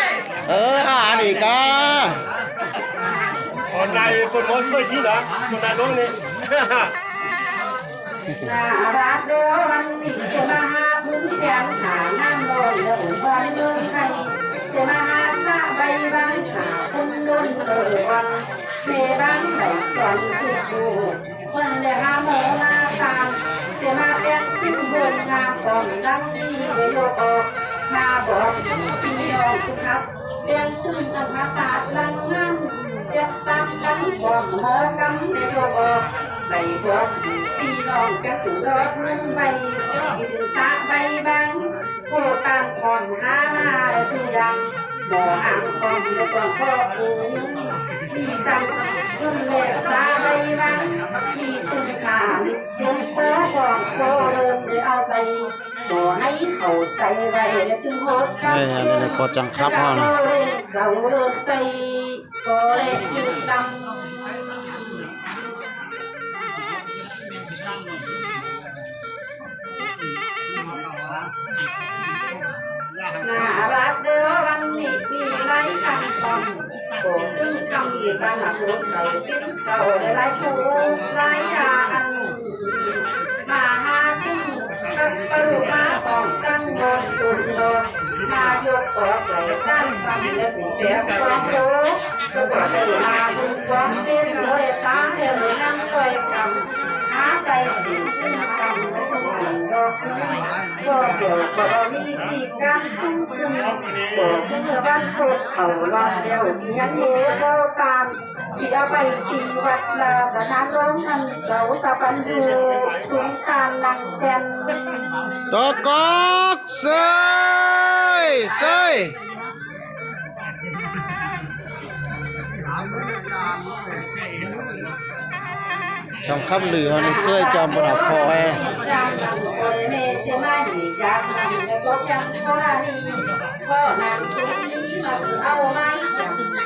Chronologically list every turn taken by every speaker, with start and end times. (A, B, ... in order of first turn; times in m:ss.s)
0:00.4-0:02.2 A
0:03.7-0:06.9 B
0:08.4-1:03.8 C
0:58.4-1:00.1 A
1:13.2-1:54.8 C
1:55.5-1:59.2 A
2:06.2-2:08.6 A
2:06.9-2:16.4 C